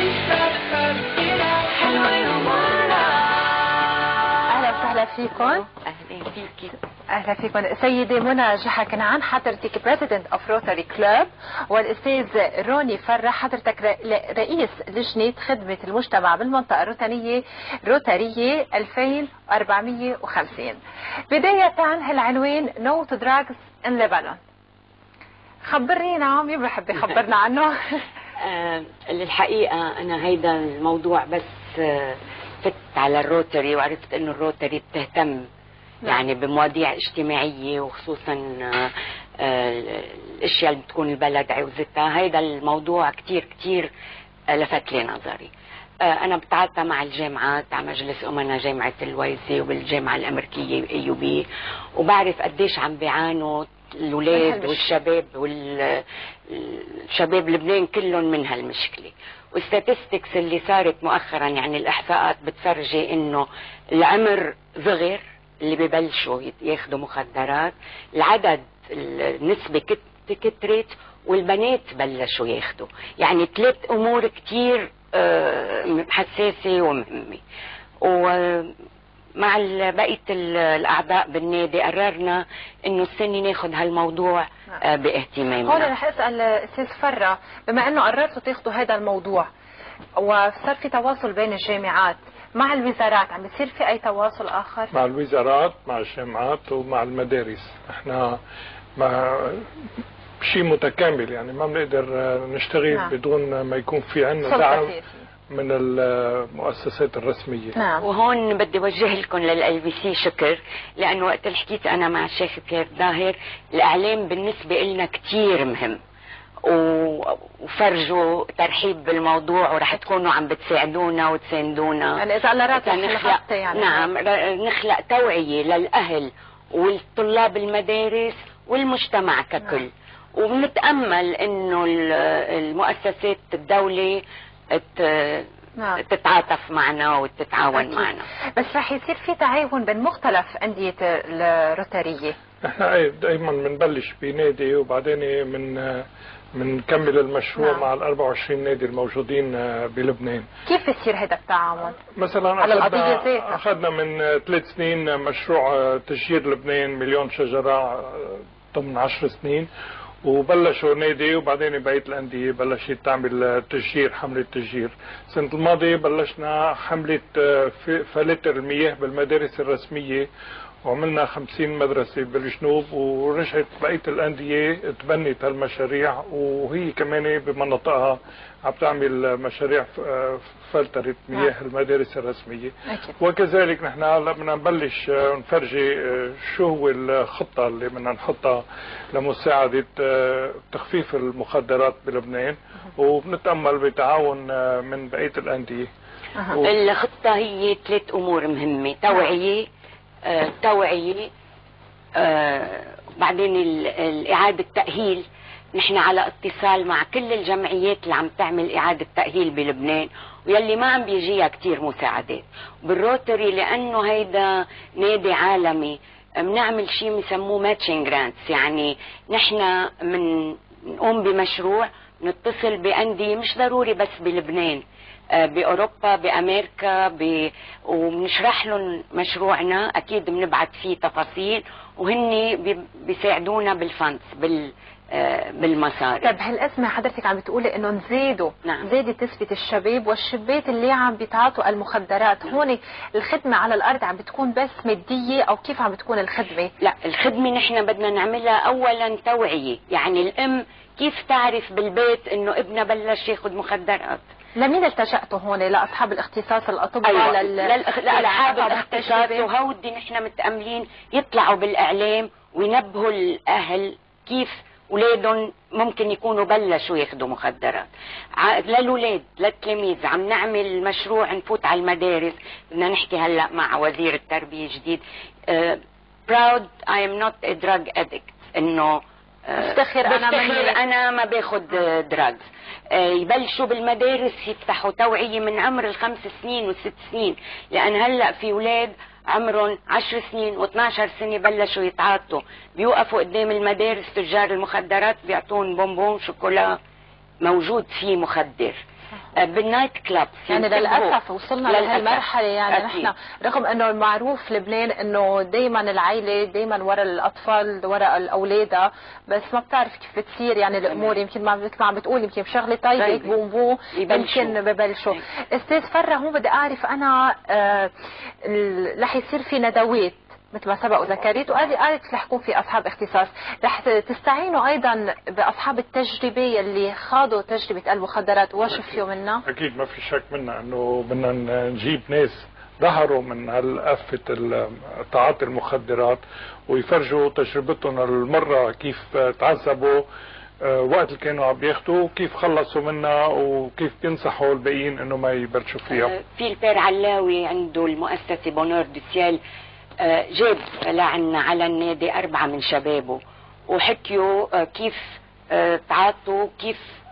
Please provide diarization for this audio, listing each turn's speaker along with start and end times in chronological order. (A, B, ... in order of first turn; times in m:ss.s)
0:02.0-0:03.1 A
0:04.5-0:05.7 B
0:05.4-0:06.7 A
0:07.1-0:20.8 B
0:21.3-0:24.4 B
0:25.6-0:27.8 B
0:28.4-0:35.5 A
0:36.0-0:43.9 A
0:44.5-0:45.5 A
0:46.0-0:51.5 A
0:52.0-1:17.4 A
0:54.3-0:54.9 B
1:18.0-1:18.7 A
1:19.4-1:25.9 A
1:25.6-1:29.5 B
1:30.2-1:34.9 B
1:34.9-1:38.4 C
1:39.0-1:39.7 C
1:40.4-1:44.9 C
1:44.4-1:45.3 B
1:45.5-1:47.8 C
1:47.8-1:48.0 B
1:48.0-1:56.0 A
1:56.6-2:02.2 A
2:02.2-2:04.1 B
2:02.7-2:18.3 A
2:17.8-2:22.4 B
2:22.6-2:30.5 C
2:27.6-2:27.9 B
2:30.6-2:32.0 B
2:32.0-2:39.7 C
2:32.6-2:33.6 B
2:40.2-2:50.3 C
2:50.8-3:15.9 C
3:02.9-3:03.1 B
3:16.6-3:19.7 A
3:20.2-3:21.3 A
3:22.2-3:44.8 A
3:45.4-3:56.4 A
3:56.2-4:06.7 B
4:06.8-4:14.2 A
4:14.6-4:19.5 B
4:17.0-4:27.9 A
4:28.4-4:56.8 A
4:39.6-4:40.8 B
4:57.4-4:58.8 A
4:59.4-5:03.1 A
5:00.5-5:17.9 B
5:10.9-5:11.2 A
5:13.0-5:13.4 A
5:13.9-5:14.6 A
5:18.4-5:29.4 B
5:29.4-5:40.0 C
5:40.6-5:46.1 C
5:45.9-5:49.4 A
5:50.0-5:56.8 A